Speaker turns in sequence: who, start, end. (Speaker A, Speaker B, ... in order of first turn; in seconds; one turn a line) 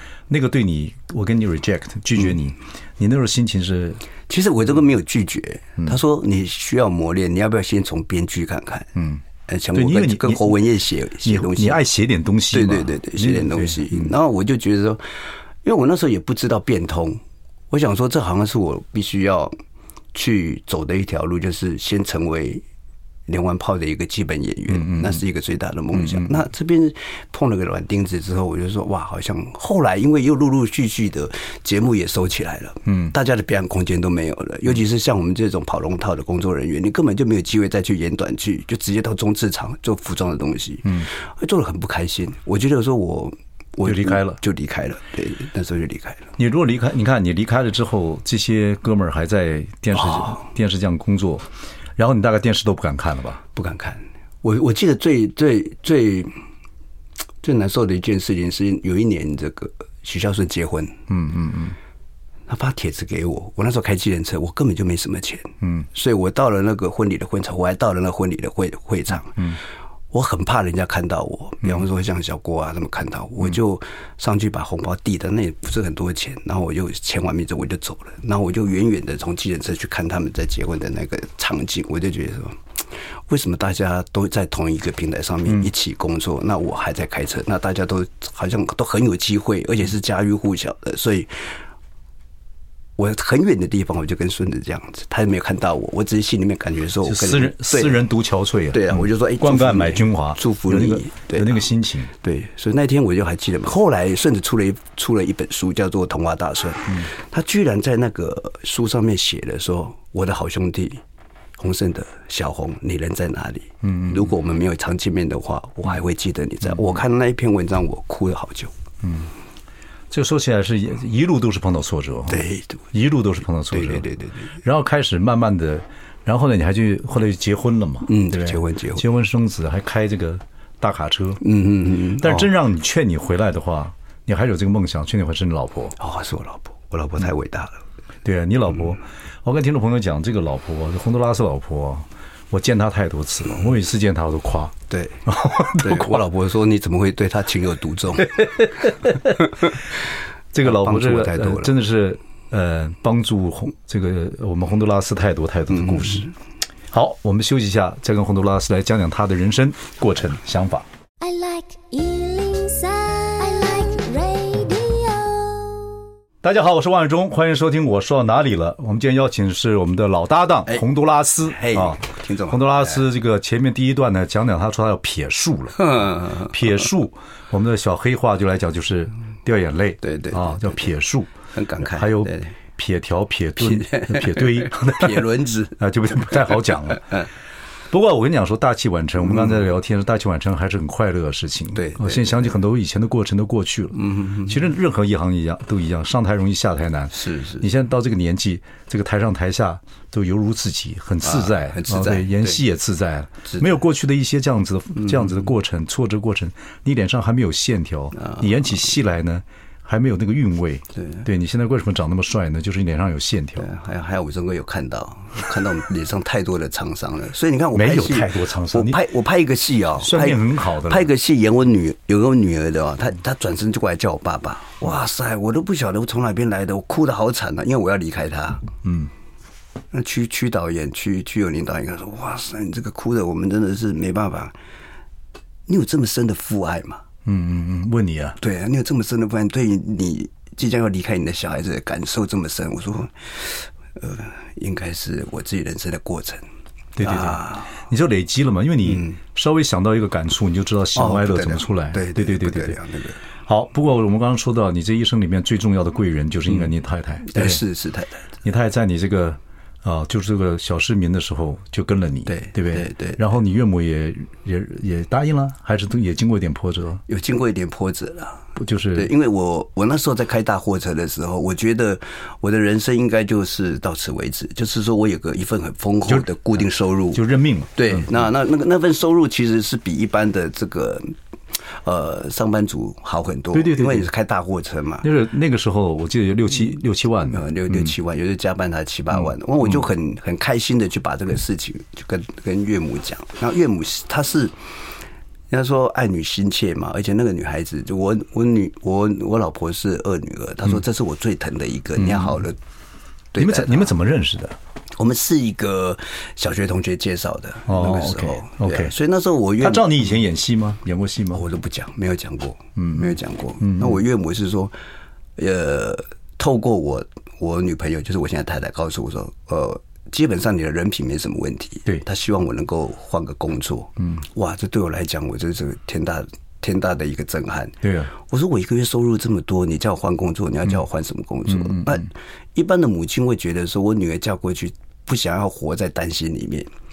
Speaker A: 0.3-4.0
Speaker B: 4.3-11.8
Speaker A: 8.9-9.2
Speaker A: 9.7-10.6
Speaker A: 11.2-14.1
Speaker B: 12.5-17.2
Speaker B: 17.7-19.5
Speaker B: 20.1-22.6
Speaker B: 23.3-46.3
Speaker A: 24.7-25.2
Speaker A: 25.9-26.3
Speaker A: 32.9-33.1
Speaker A: 43.8-44.4
Speaker A: 46.4-53.4
Speaker B: 53.5-56.3
Speaker B: 57.4-61.0
Speaker A: 61.1-61.8
Speaker B: 62.5-69.6
Speaker B: 70.1-82.6
Speaker B: 83.3-91.5
Speaker B: 93.0-98.0
Speaker A: 97.0-102.1
Speaker B: 98.7-111.0
Speaker B: 111.6-118.7
Speaker A: 113.8-114.3
Speaker A: 119.0-119.3
Speaker A: 120.1-124.1
Speaker B: 122.3-122.8
Speaker B: 123.7-124.5
Speaker A: 124.6-131.4
Speaker B: 128.1-129.1
Speaker B: 131.4-132.5
Speaker A: 132.2-135.9
Speaker B: 136.0-137.8
Speaker A: 138.2-144.7
Speaker B: 144.9-149.8
Speaker A: 145.2-146.2
Speaker A: 148.4-149.4
Speaker A: 150.5-156.3
Speaker B: 150.6-151.7
Speaker B: 155.7-156.3
Speaker A: 156.9-160.9
Speaker C: 161.2-166.0
Speaker A: 166.4-181.3
Speaker B: 171.5-173.1
Speaker B: 175.8-176.5
Speaker B: 180.0-180.8
Speaker B: 181.5-182.5
Speaker A: 181.8-187.1
Speaker B: 183.6-185.8
Speaker A: 187.9-213.7
Speaker B: 189.2-189.6
Speaker B: 191.7-192.5
Speaker B: 193.9-194.6
Speaker B: 197.1-197.6
Speaker B: 201.2-202.6
Speaker B: 208.2-208.4
Speaker B: 211.0-211.2
Speaker B: 213.6-228.6
Speaker A: 217.7-219.0
Speaker A: 220.0-221.1
Speaker A: 228.8-229.1
Speaker B: 229.9-234.5
Speaker B: 235.7-237.0
Speaker A: 237.2-238.4
Speaker B: 238.4-246.4
Speaker A: 246.9-252.8
Speaker B: 247.0-247.8
Speaker B: 248.9-249.2
Speaker B: 250.9-253.2
Speaker A: 253.4-257.6
Speaker B: 257.2-258.2
Speaker A: 258.4-267.0
Speaker B: 262.3-263.2
Speaker B: 267.1-277.2
Speaker A: 268.6-269.1
Speaker A: 277.1-278.1
Speaker B: 277.7-281.1
Speaker B: 281.7-285.1
Speaker A: 283.5-284.1
Speaker A: 285.0-287.9
Speaker B: 287.3-294.5
Speaker B: 295.5-302.6
Speaker A: 301.9-302.4
Speaker B: 303.3-303.9
Speaker A: 303.4-304.6
Speaker B: 305.0-310.1
Speaker A: 307.7-308.9
Speaker A: 309.6-311.4
Speaker B: 311.3-314.7
Speaker A: 312.8-314.0
Speaker B: 315.4-336.7
Speaker A: 327.8-328.1
Speaker A: 331.5-332.0